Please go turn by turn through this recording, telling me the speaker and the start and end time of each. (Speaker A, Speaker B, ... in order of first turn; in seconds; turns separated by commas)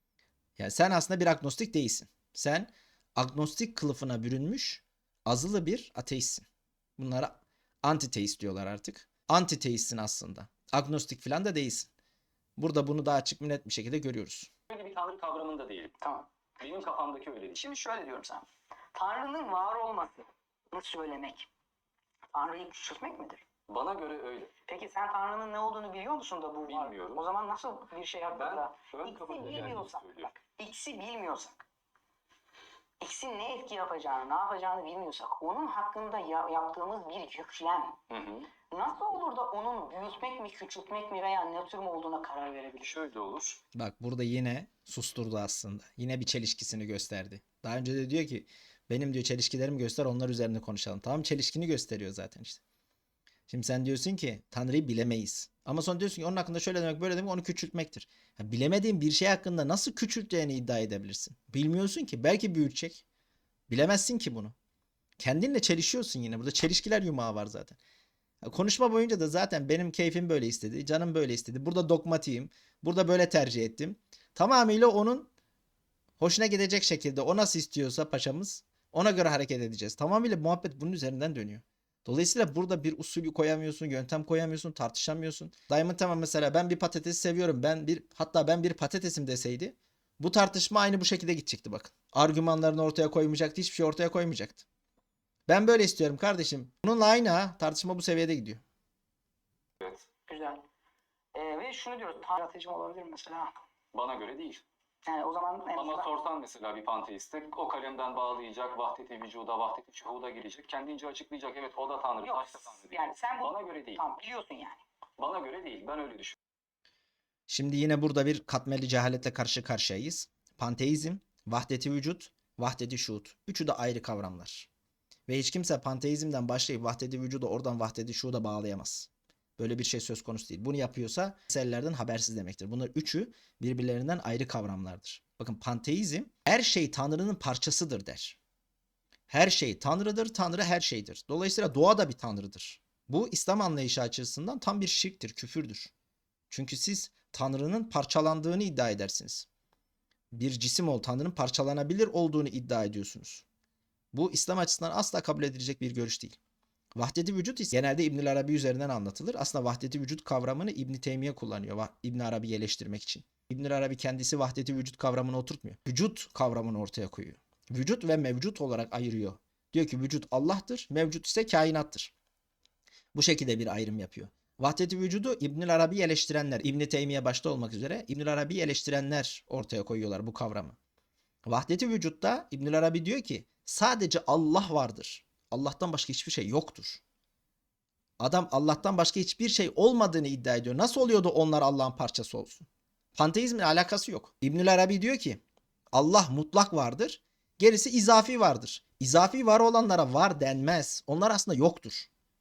Speaker A: 0.6-6.5, Speaker A: 7.0-11.9, Speaker A: 12.6-14.5, Speaker B: 14.7-15.9, Speaker C: 16.0-16.3, Speaker B: 16.6-17.6, Speaker C: 17.5-21.5, Speaker C: 22.3-23.4, Speaker B: 23.7-24.5, Speaker C: 24.7-31.6, Speaker B: 26.6-27.2, Speaker B: 28.3-30.3, Speaker C: 33.0-38.0, Speaker B: 38.1-38.5, Speaker C: 38.7-43.0, Speaker B: 42.8-43.6, Speaker A: 43.7-52.6, Speaker A: 53.5-63.0, Speaker A: 63.7-64.5, Speaker A: 65.2-67.8, Speaker A: 68.4-75.3, Speaker A: 76.2-94.6, Speaker A: 95.5-98.6, Speaker B: 99.8-100.1, Speaker C: 100.3-100.6, Speaker C: 101.3-103.5, Speaker B: 103.9-104.6, Speaker C: 105.0-106.1, Speaker B: 105.7-114.0, Speaker C: 112.2-114.8, Speaker B: 115.2-116.3, Speaker A: 117.5-124.7, Speaker A: 125.3-138.4, Speaker A: 139.3-145.9, Speaker A: 146.5-149.5, Speaker A: 150.3-153.4, Speaker A: 154.1-156.4, Speaker A: 156.9-172.1, Speaker A: 173.1-180.8, Speaker A: 181.4-187.0, Speaker A: 188.2-195.4, Speaker A: 195.9-202.1